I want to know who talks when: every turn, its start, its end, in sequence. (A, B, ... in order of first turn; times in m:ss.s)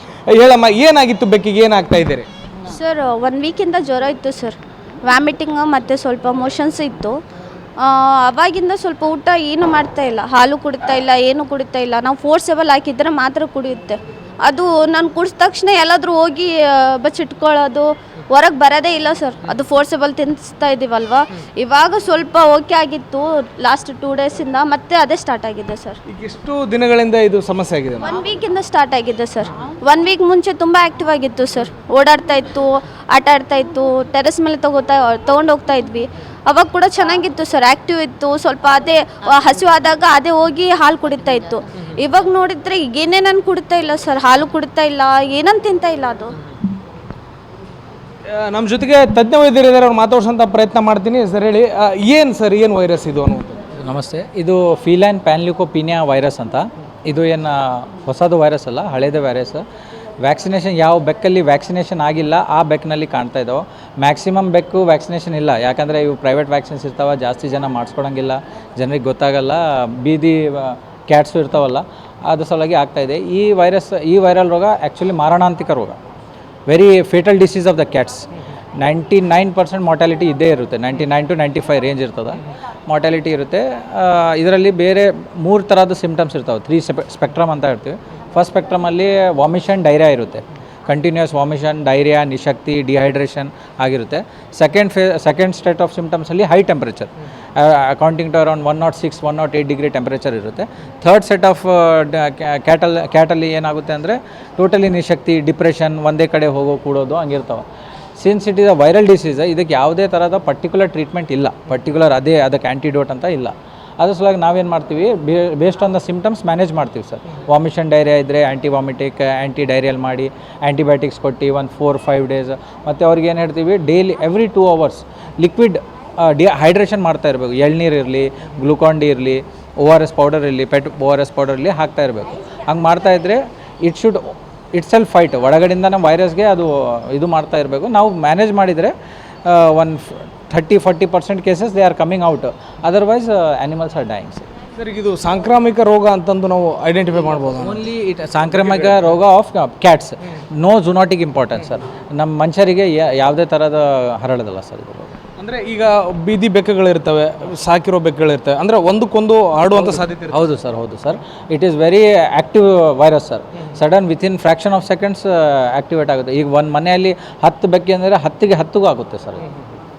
0:00.3-0:02.3 A
0:02.7-0:07.2 B
0:07.8-0:26.0 B
0:26.1-0:28.1 A
0:28.0-0:46.3 B
0:48.3-0:53.6 A
0:53.8-0:59.6 C
1:00.2-1:16.0 C
1:16.7-1:47.6 C
1:48.2-2:24.4 C
2:24.8-2:27.8 A
2:27.5-2:35.1 C
2:35.4-2:40.4 A
2:40.3-2:49.4 C